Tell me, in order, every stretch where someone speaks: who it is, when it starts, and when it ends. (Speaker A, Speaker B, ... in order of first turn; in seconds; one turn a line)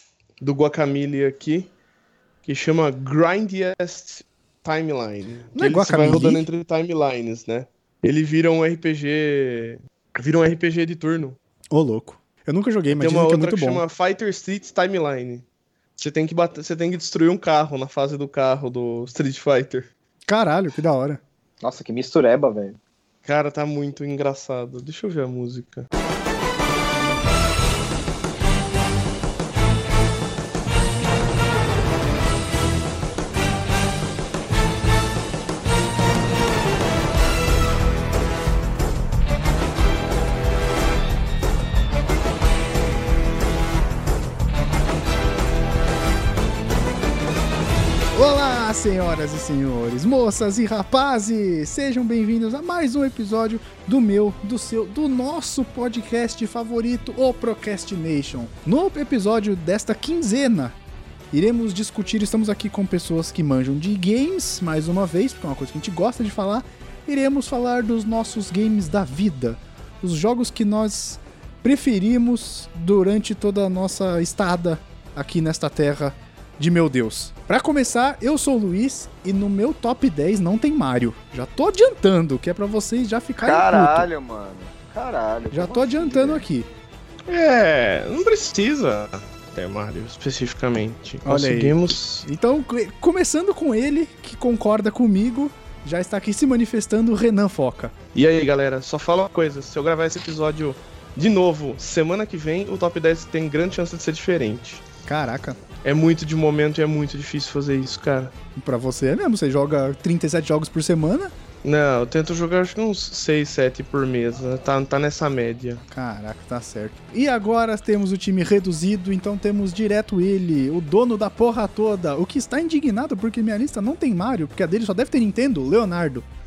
Speaker A: 0.4-1.7
Speaker A: 2.4-11.4
Speaker B: 5.5-6.4
Speaker B: 11.7-13.8
Speaker A: 12.9-15.4
Speaker A: 16.0-19.9
Speaker B: 20.3-21.2
Speaker C: 21.6-22.8
Speaker A: 23.2-25.9
Speaker B: 48.1-60.7
Speaker B: 61.3-84.1
Speaker C: 83.4-86.5
Speaker B: 85.5-86.7
Speaker A: 87.3-92.3
Speaker B: 91.2-97.9
Speaker A: 98.1-104.8
Speaker B: 105.0-105.6
Speaker A: 105.8-108.3
Speaker B: 108.5-111.3
Speaker A: 111.6-115.8
Speaker B: 115.9-126.2